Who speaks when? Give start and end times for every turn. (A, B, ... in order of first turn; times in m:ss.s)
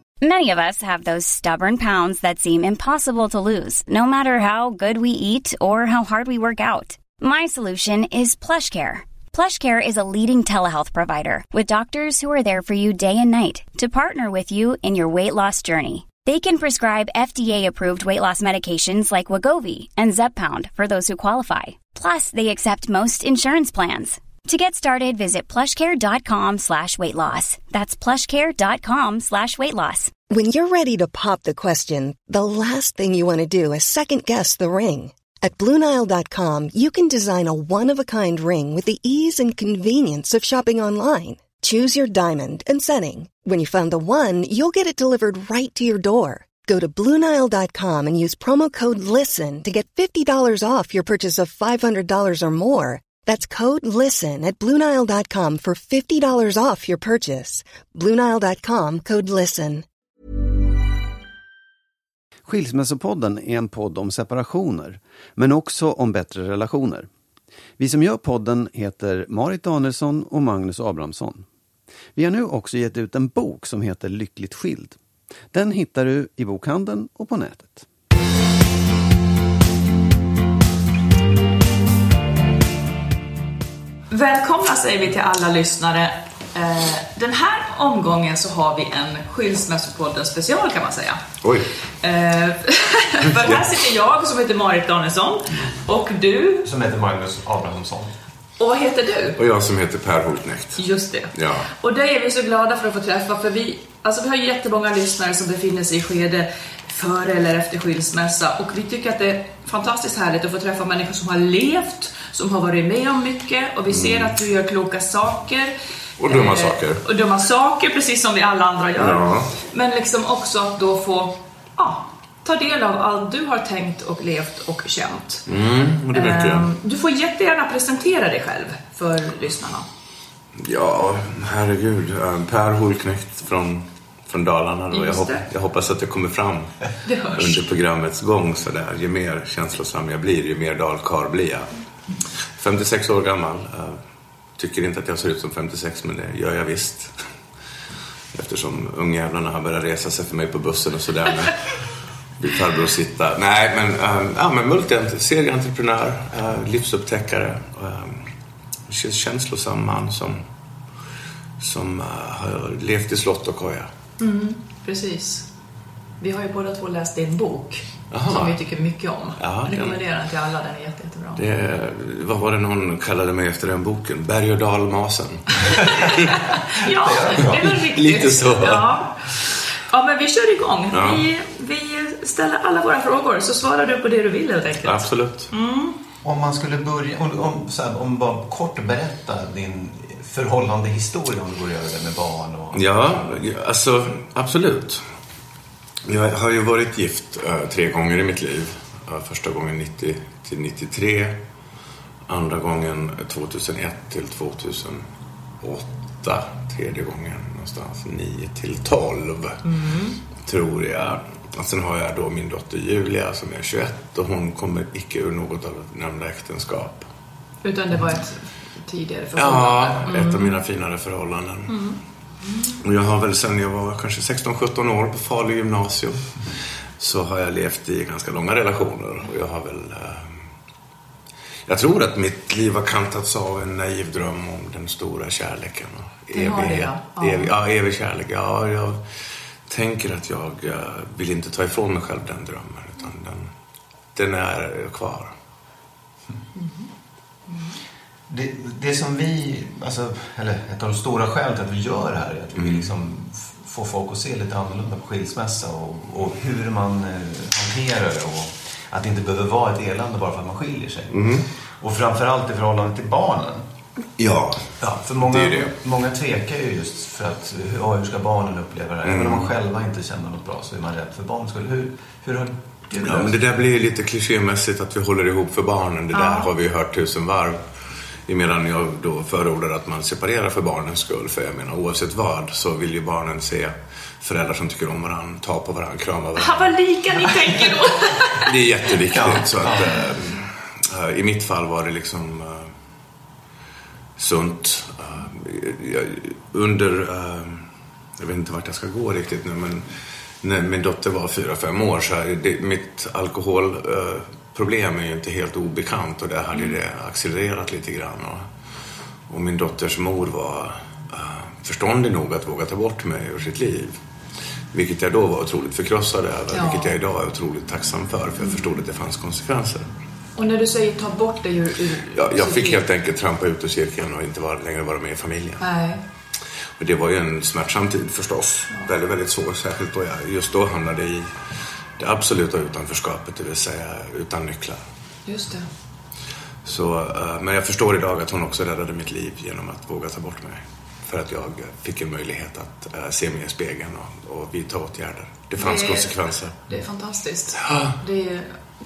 0:00.2-0:30.1 A
0:30.3-0:59.8 B
1:02.4-1:07.1 C
1:07.8-1:11.5 C
1:12.2-1:15.0 C
1:15.5-1:17.8 C
1:24.1-1:31.2 D
1:31.4-1:31.7 E
1:32.0-1:36.7 D
1:33.3-1:33.7 E
1:36.6-1:38.1 F
1:38.6-1:39.4 D
1:39.4-1:40.8 E
1:40.8-2:05.5 D
1:41.3-1:41.7 E
1:53.9-1:54.4 E
1:56.2-1:57.0 E
1:59.0-1:59.6 E
2:05.5-2:06.7 E
2:06.1-2:09.9 D
2:10.6-2:16.7 E
2:14.9-2:15.4 D
2:17.1-2:17.6 D
2:17.3-2:21.7 E
2:22.6-2:24.0 E
2:24.6-2:27.1 E
2:28.3-2:31.6 E
2:32.4-2:38.3 E
2:38.9-2:40.4 E
2:41.6-2:43.9 E
2:44.2-2:45.5 D
2:46.2-2:51.4 D
2:48.1-2:48.6 E
2:49.4-2:50.0 E
2:51.4-2:56.4 E
2:55.7-2:56.1 F
2:56.6-2:59.3 D
2:56.8-2:57.7 F
2:57.4-2:58.9 E
2:59.9-3:06.0 D
3:00.9-3:01.3 E
3:04.8-3:05.5 E
3:06.2-3:13.3 F
3:12.7-3:15.0 E
3:16.1-3:21.4 E
3:22.3-3:25.0 E
3:25.6-3:29.6 E
3:29.6-3:30.2 D
3:30.4-3:37.1 E
3:37.6-3:40.6 D
3:39.4-3:41.8 E
3:41.7-3:42.8 D
3:42.8-3:46.2 E
3:47.0-3:50.4 E
3:51.7-3:59.0 E
3:56.3-3:57.5 D
3:59.7-4:03.5 E
4:04.2-4:05.3 E
4:06.6-4:06.9 D
4:07.5-4:07.8 D
4:08.3-4:21.3 F
4:12.6-4:12.9 E
4:21.1-4:21.5 E
4:21.8-4:23.6 F
4:24.2-4:25.7 E
4:24.8-4:33.4 F
4:29.0-4:29.5 E
4:33.0-4:37.6 E
4:36.1-4:36.5 D
4:38.3-4:46.7 E
4:46.4-4:48.6 D
4:48.4-4:52.7 E
4:49.1-4:50.0 F
4:54.2-4:57.6 E
4:58.2-4:59.9 E
5:00.4-5:08.4 E
5:09.3-5:14.0 E
5:14.7-5:19.9 E
5:16.5-5:17.0 D
5:20.4-5:22.8 D
5:22.1-5:25.6 E
5:25.6-5:26.0 D
5:26.8-5:31.3 E
5:32.0-5:34.8 E
5:35.3-5:35.7 D
5:36.6-5:46.7 E
5:45.6-5:46.2 D
5:46.7-5:48.6 D
5:47.6-5:48.0 E